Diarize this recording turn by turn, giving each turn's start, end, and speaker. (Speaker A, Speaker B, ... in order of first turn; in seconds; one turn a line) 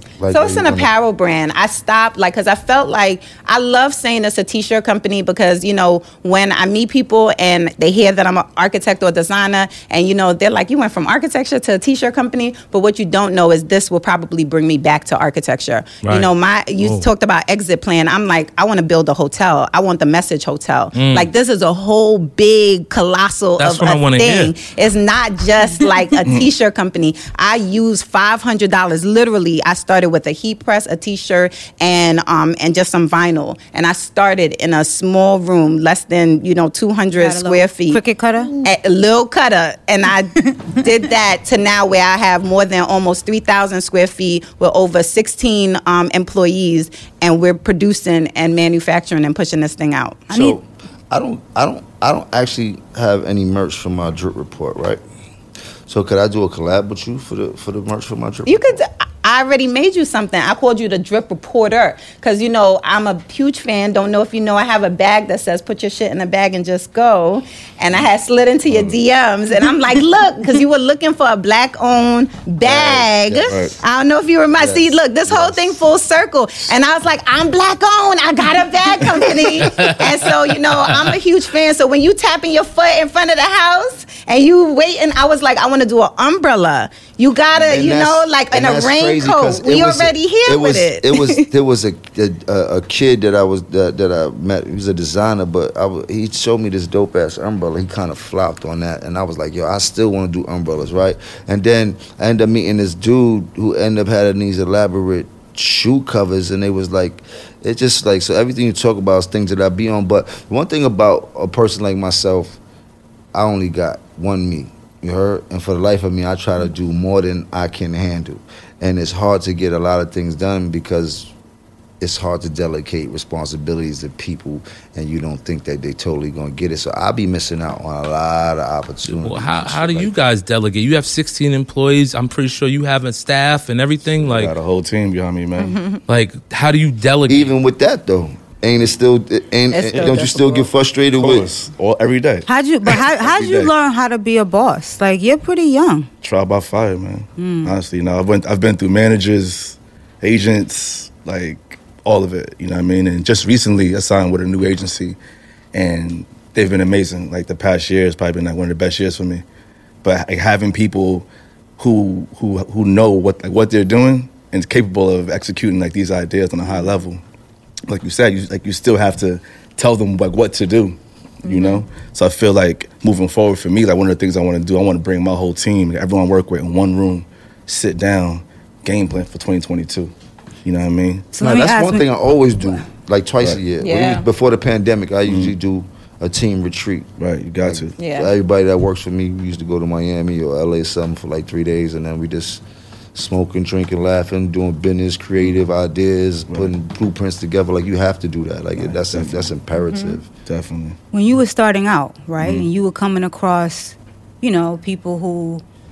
Speaker A: 0.2-0.9
Speaker B: 0.3-38.0
Speaker C: 16.0-17.1
Speaker C: 20.9-21.3
Speaker C: 23.6-24.5
Speaker D: 37.1-38.6
Speaker B: 38.5-50.4
Speaker A: 50.3-55.0
Speaker A: 55.9-58.8
Speaker B: 58.5-91.5
Speaker E: 68.7-68.9
Speaker E: 72.6-73.8
Speaker E: 74.6-75.8
Speaker C: 79.7-80.0
Speaker A: 87.5-112.6
Speaker A: 113.3-121.3
Speaker A: 122.0-130.1
Speaker C: 129.1-134.5
Speaker E: 134.2-135.8
Speaker B: 135.6-136.0
Speaker C: 136.1-137.5
Speaker A: 137.3-141.5
Speaker B: 139.7-140.7
Speaker E: 141.2-143.7
Speaker D: 142.5-146.1
Speaker E: 146.2-155.2
Speaker D: 147.4-147.7
Speaker E: 155.7-159.4
Speaker E: 160.0-167.2
Speaker E: 167.9-180.1
Speaker B: 171.4-171.8
Speaker E: 180.6-181.3
Speaker D: 181.3-182.1
Speaker A: 181.4-187.1
Speaker B: 183.8-184.2
Speaker E: 185.3-185.5
Speaker E: 187.2-187.9
Speaker A: 187.6-192.6
Speaker B: 188.0-188.3
Speaker A: 193.1-200.3
Speaker E: 198.8-199.5
Speaker B: 199.9-200.2
Speaker E: 200.4-201.0
Speaker D: 201.1-205.6
Speaker E: 202.4-202.7